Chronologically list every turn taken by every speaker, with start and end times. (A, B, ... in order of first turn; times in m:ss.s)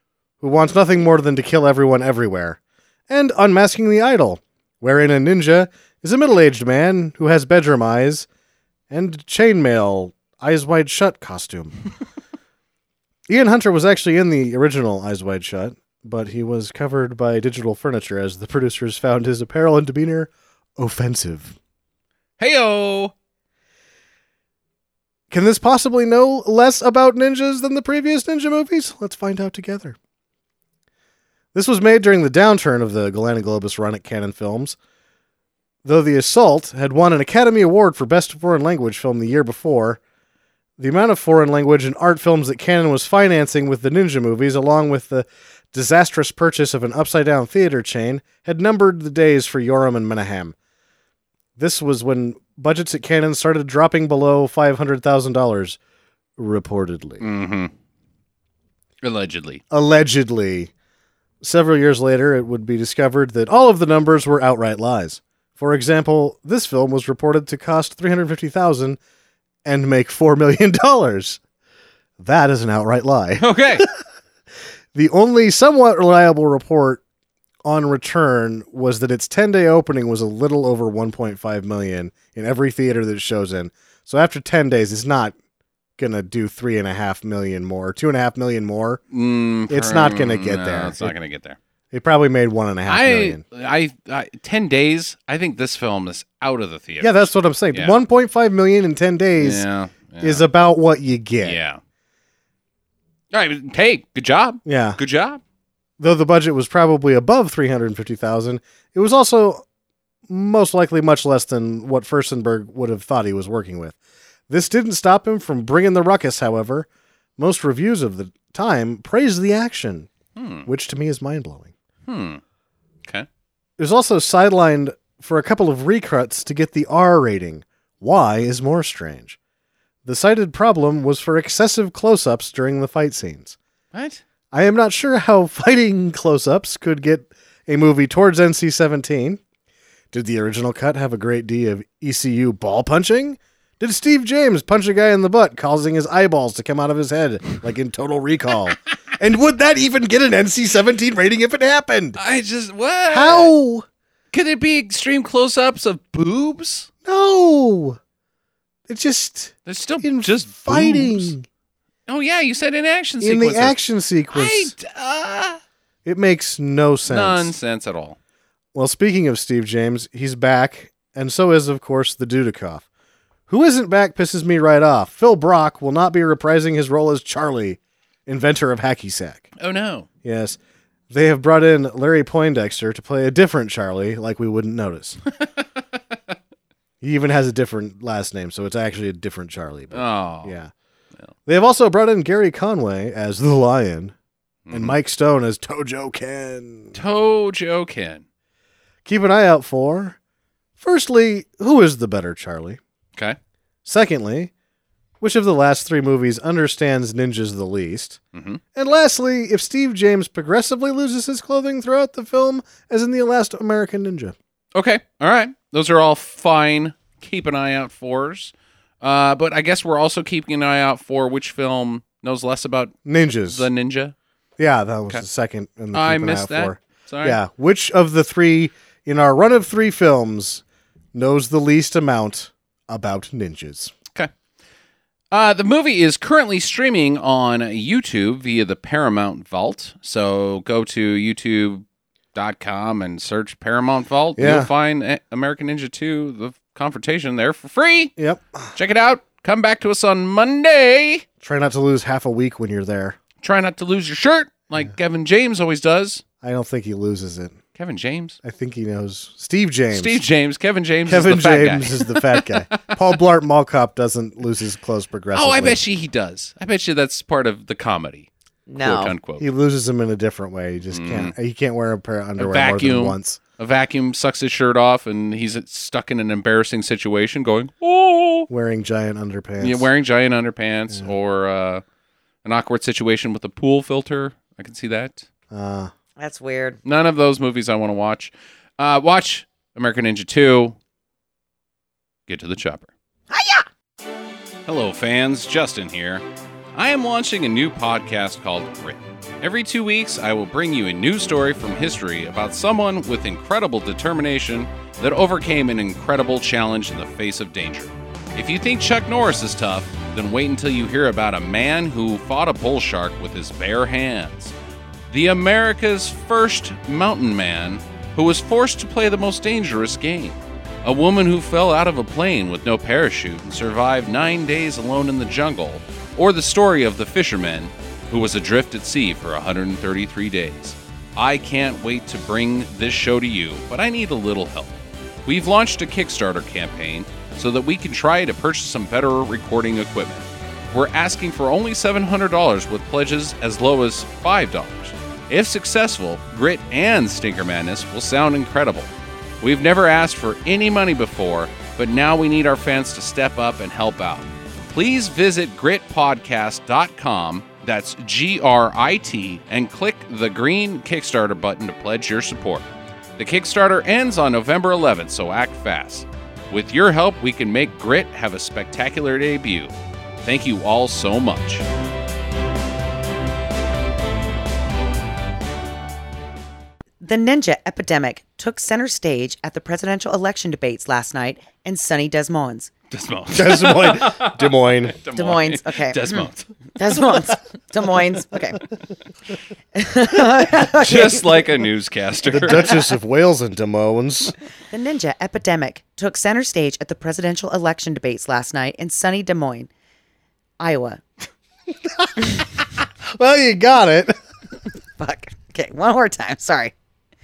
0:00.4-0:08.3 A
0:08.9-0:11.7 A
0:13.3-0:21.6 A
0:22.4-0:23.1 B
0:25.3-0:30.0 A
0:31.5-0:34.8 A
0:35.8-0:40.0 A
0:40.8-0:50.5 A
0:51.6-0:55.8 A
0:56.4-0:57.2 A
0:57.2-0:57.7 B
0:59.0-0:59.6 B
0:59.7-1:00.7 A
1:01.4-1:09.0 A
1:09.6-1:11.4 A
1:12.2-1:13.9 A
1:13.4-1:13.8 B
1:14.9-1:17.0 A
1:17.6-1:25.3 A
1:26.0-1:29.0 A
1:29.1-1:31.6 B
1:29.7-1:31.1 A
1:31.9-1:33.4 A
1:32.8-1:37.9 B
1:37.0-1:39.6 A
1:39.4-1:40.4 B
1:40.2-1:41.6 A
1:41.4-1:41.8 B
1:43.3-1:45.4 B
1:44.6-1:45.0 A
1:46.0-1:49.6 A
1:50.3-1:54.0 A
1:54.5-2:00.1 A
2:00.4-2:00.7 B
2:00.6-2:01.7 A
2:02.1-2:02.4 B
2:03.8-2:09.4 A
2:10.0-2:13.6 A
2:13.9-2:14.2 B
2:14.5-2:19.4 A
2:20.1-2:32.2 A
2:32.2-2:33.5 B
2:33.1-2:33.8 A
2:34.3-2:36.9 B
2:37.0-2:38.0 A
2:38.9-2:41.4 A
2:39.6-2:41.3 B
2:42.1-2:43.8 B
2:43.2-2:44.7 A
2:44.3-2:45.6 B
2:46.0-2:47.5 A
2:47.1-2:48.2 B
2:48.7-2:52.8 A
2:53.5-2:59.5 A
2:59.6-3:00.1 B
3:00.2-3:00.6 A
3:01.1-3:05.2 A
3:05.3-3:05.8 B
3:07.0-3:10.7 A
3:09.9-3:10.6 B
3:11.4-3:14.1 A
3:14.6-3:15.0 B
3:14.7-3:17.0 A
3:16.9-3:18.2 B
3:19.0-3:20.2 A
3:20.8-3:22.8 A
3:23.8-3:24.5 A
3:25.2-3:28.2 A
3:28.3-3:28.6 B
3:28.7-3:34.3 A
3:34.7-3:43.0 B
3:43.0-3:43.7 A
3:43.5-3:44.1 B
3:44.6-3:50.6 A
3:45.9-3:47.4 B
3:51.1-3:53.9 A
3:55.3-4:08.1 B
4:04.4-4:04.7 A
4:08.2-4:08.7 A
4:08.7-4:11.2 B
4:11.4-4:13.2 A
4:13.4-4:16.2 B
4:16.4-4:17.6 A
4:17.8-4:18.4 B
4:18.4-4:20.2 A
4:19.9-4:23.0 B
4:21.0-4:25.8 A
4:25.3-4:29.4 B
4:28.7-4:29.2 C
4:29.4-4:33.4 A
4:30.9-4:31.3 B
4:32.4-4:38.5 B
4:38.5-4:39.9 A
4:39.6-4:41.8 B
4:42.4-4:45.3 B
4:45.5-4:45.9 A
4:46.2-4:46.8 C
4:46.8-4:50.8 B
4:52.3-4:52.9 B
4:53.3-4:53.6 C
4:54.6-5:14.5 B
5:15.1-6:11.6 B
6:17.0-6:22.7 C
6:22.9-6:26.5 B
6:23.3-6:25.0 A
6:25.1-6:26.2 C
6:26.8-6:28.7 C
6:29.7-6:31.4 C
6:30.6-6:32.8 B
6:32.2-6:34.3 A
6:34.7-6:39.7 C
6:40.6-6:41.0 C
6:41.8-6:42.3 A
6:43.0-6:44.2 A
6:45.0-6:46.7 C